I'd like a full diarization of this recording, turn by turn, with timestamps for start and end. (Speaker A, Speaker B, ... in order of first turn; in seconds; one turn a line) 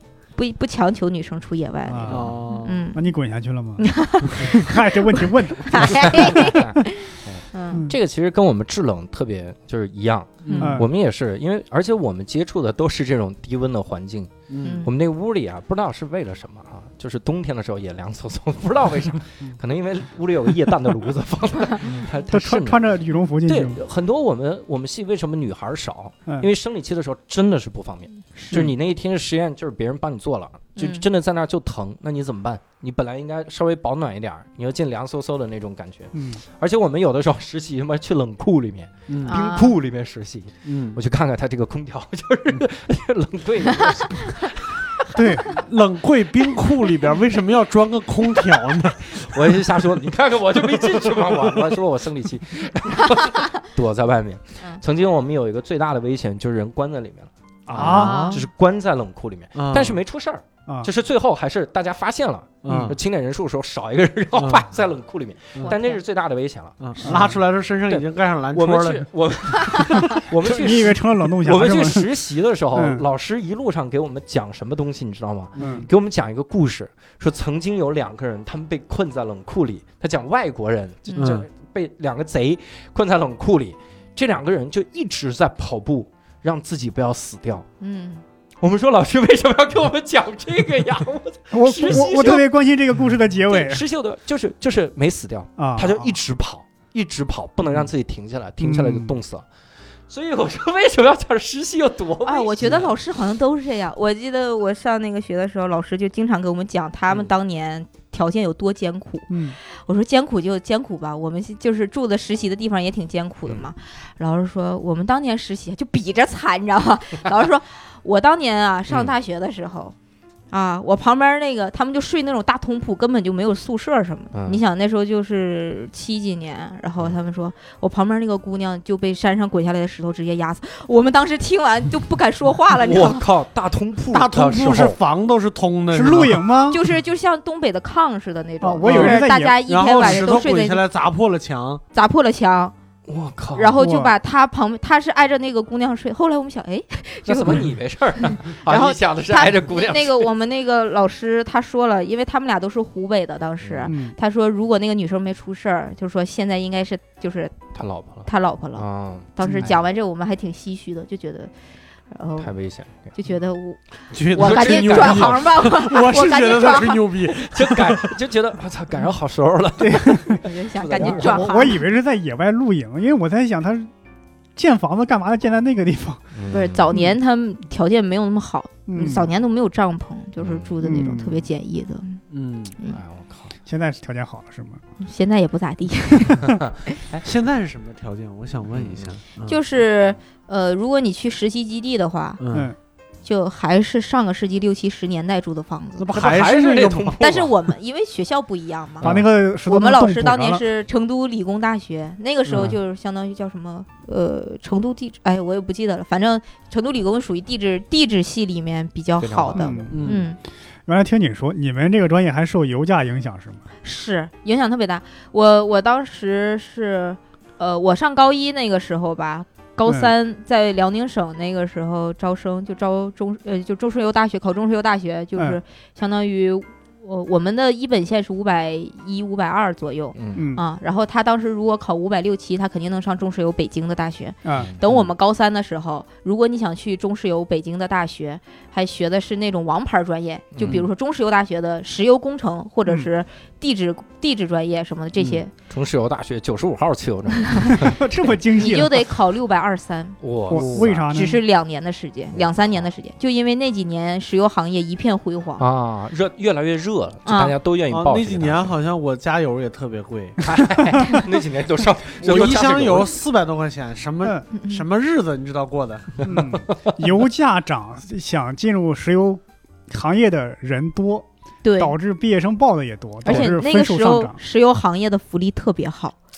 Speaker A: 0.3-3.0
Speaker B: 1.9-2.4
Speaker C: 2.1-2.8
Speaker B: 2.9-6.4
Speaker A: 3.8-5.0
Speaker A: 5.6-7.9
Speaker D: 5.8-14.3
Speaker C: 10.4-10.7
Speaker A: 10.4-10.8
Speaker B: 10.6-10.9
Speaker C: 14.5-14.8
Speaker A: 14.6-14.9
Speaker D: 14.8-22.9
Speaker B: 22.3-23.8
Speaker D: 23.5-45.1
Speaker A: 30.8-31.0
Speaker B: 36.1-36.4
Speaker C: 39.1-39.4
Speaker A: 39.2-39.8
Speaker C: 40.6-41.0
Speaker B: 45.1-45.6
Speaker C: 45.5-49.3
Speaker D: 49.1-67.3
Speaker B: 57.7-58.4
Speaker A: 57.8-58.4
Speaker C: 59.5-60.0
Speaker C: 62.6-63.0
Speaker B: 62.7-62.9
Speaker C: 64.3-64.7
Speaker A: 65.6-66.0
Speaker C: 66.8-69.1
Speaker B: 67.0-67.4
Speaker D: 67.9-87.6
Speaker B: 70.4-72.1
Speaker B: 72.7-73.0
Speaker C: 75.5-75.9
Speaker B: 75.6-75.9
Speaker A: 81.1-81.4
Speaker C: 81.2-81.5
Speaker A: 87.8-88.2
Speaker D: 88.6-92.5
Speaker B: 91.5-93.8
Speaker D: 93.5-99.4
Speaker B: 95.6-96.1
Speaker B: 98.6-99.1
Speaker D: 100.1-102.9
Speaker A: 102.2-119.9
Speaker B: 109.3-109.6
Speaker A: 120.5-133.2
Speaker D: 124.3-124.6
Speaker D: 132.8-135.0
Speaker C: 134.1-136.4
Speaker B: 135.9-136.8
Speaker A: 136.7-140.8
Speaker B: 138.6-139.6
Speaker C: 138.8-141.8
Speaker A: 141.9-142.7
Speaker D: 143.1-143.8
Speaker A: 143.5-147.7
Speaker B: 143.8-144.1
Speaker D: 147.2-150.3
Speaker A: 148.2-157.6
Speaker D: 153.6-153.9
Speaker B: 153.9-154.2
Speaker D: 157.7-159.3
Speaker A: 158.2-161.5
Speaker C: 159.4-159.7
Speaker A: 162.1-162.5
Speaker D: 162.4-163.1
Speaker A: 163.1-167.0
Speaker C: 164.1-168.1
Speaker D: 164.3-165.6
Speaker D: 167.3-171.5
Speaker B: 169.8-170.4
Speaker A: 170.4-171.8
Speaker B: 171.0-173.9
Speaker B: 174.6-176.2
Speaker D: 176.3-176.9
Speaker A: 176.5-182.2
Speaker B: 178.9-179.3
Speaker D: 180.4-180.7
Speaker B: 180.8-181.5
Speaker C: 182.3-182.8
Speaker D: 182.9-183.5
Speaker B: 183.7-184.8
Speaker A: 185.0-187.0
Speaker D: 186.4-187.2
Speaker C: 187.2-189.6
Speaker D: 188.7-189.1
Speaker A: 189.4-192.4
Speaker C: 192.4-192.7
Speaker B: 192.5-192.8
Speaker A: 193.2-196.1
Speaker C: 196.0-197.2
Speaker D: 196.1-197.5
Speaker A: 197.2-199.1
Speaker B: 199.0-200.6
Speaker A: 199.7-210.4
Speaker C: 202.5-202.7
Speaker D: 209.2-209.8
Speaker B: 209.5-210.2
Speaker C: 209.9-210.2
Speaker B: 210.8-213.6
Speaker A: 213.8-245.5
Speaker B: 219.8-220.1
Speaker D: 230.1-230.4
Speaker B: 230.3-230.6
Speaker B: 234.4-234.7
Speaker D: 240.5-240.8
Speaker D: 245.6-248.0
Speaker B: 247.7-248.9
Speaker A: 248.6-255.6
Speaker D: 250.2-251.3
Speaker B: 250.5-251.4
Speaker D: 252.3-252.9
Speaker D: 255.6-258.7
Speaker A: 257.2-257.5
Speaker C: 257.9-260.4
Speaker D: 260.4-263.1
Speaker C: 262.2-266.3
Speaker A: 264.5-264.8
Speaker D: 266.2-267.0
Speaker B: 266.2-271.2
Speaker A: 271.6-271.9
Speaker B: 271.8-274.4
Speaker A: 273.2-276.1